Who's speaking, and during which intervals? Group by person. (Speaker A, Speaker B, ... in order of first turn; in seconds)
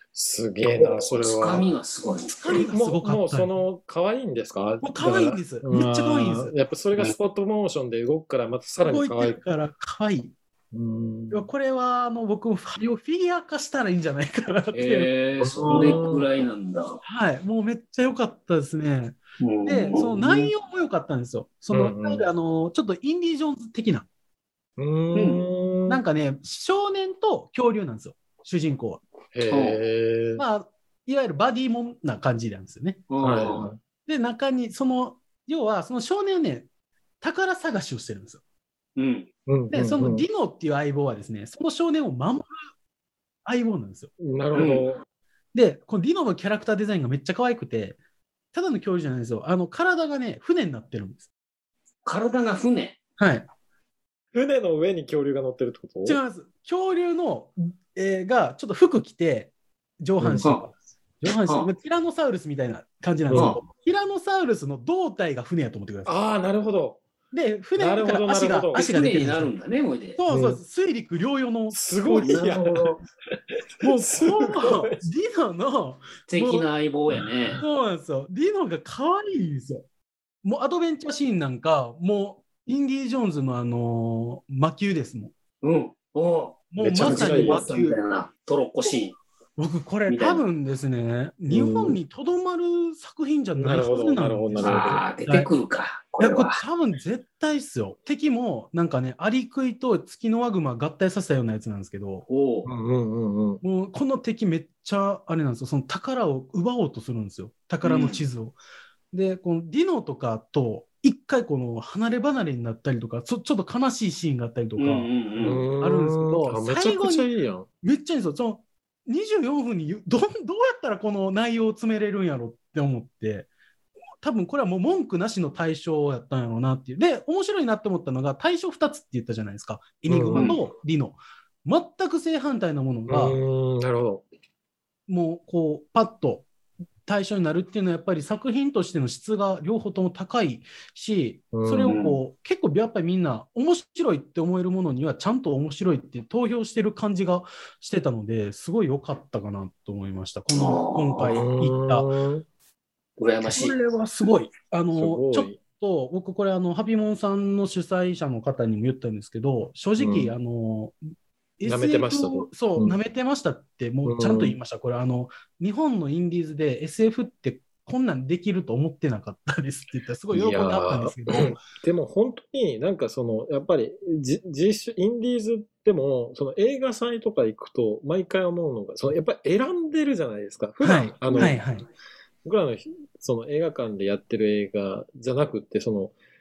Speaker A: 0.1-1.7, 2.7-9.4, 10.7-11.5, 15.4-16.3, 21.7-22.3, 24.8-26.0, 29.3-30.4, 33.2-33.8, 39.5-40.2, 44.2-45.0, 54.3-56.2, 60.2-60.5, 63.3-63.6, 66.0-67.0, 67.8-69.1, 70.3-70.6, 71.7-73.0, 73.8-75.0, 77.1-77.6, 86.8-87.7, 91.5-92.0, 93.5-95.0, 102.7-103.6, 115.4-117.7, 130.1-130.5, 133.1-134.2, 141.5-142.0, 151.2-152.4, 154.9-155.6, 160.0-160.3, 161.6-162.9, 164.0-164.6, 170.3-181.6, 182.4-186.1
Speaker B: 0.7-2.6, 14.7-17.0, 19.4-20.5, 25.1-25.4, 29.5-29.8, 33.1-33.7, 39.0-39.3, 44.5-44.8, 52.0-53.0, 60.4-60.6, 63.3-63.6, 68.7-70.2, 72.2-73.0, 76.3-77.6, 85.6-89.2, 90.1-90.4, 94.6-96.6, 102.3-102.7, 107.8-108.2, 114.8-115.6, 141.9-142.2, 150.5-151.3, 153.2-153.8
Speaker C: 2.3-3.5, 4.8-6.5, 8.8-10.3, 11.3-16.0, 17.0-24.1, 25.9-29.0, 30.4-33.1, 34.0-36.7, 37.2-38.4, 39.7-42.5, 43.4-44.1, 45.5-48.0, 48.5-51.2, 53.2-53.5, 56.0-66.1, 67.3-69.5, 70.2-72.5, 73.8-76.7, 77.6-79.8, 80.4-85.3, 86.7-88.0, 89.6-95.5, 96.2-102.2, 103.6-108.5, 109.1-117.3, 117.8-123.5, 124.2-133.4, 135.1-136.5, 137.1-152.1, 153.4-161.0, 161.6-171.6, 180.8-181.9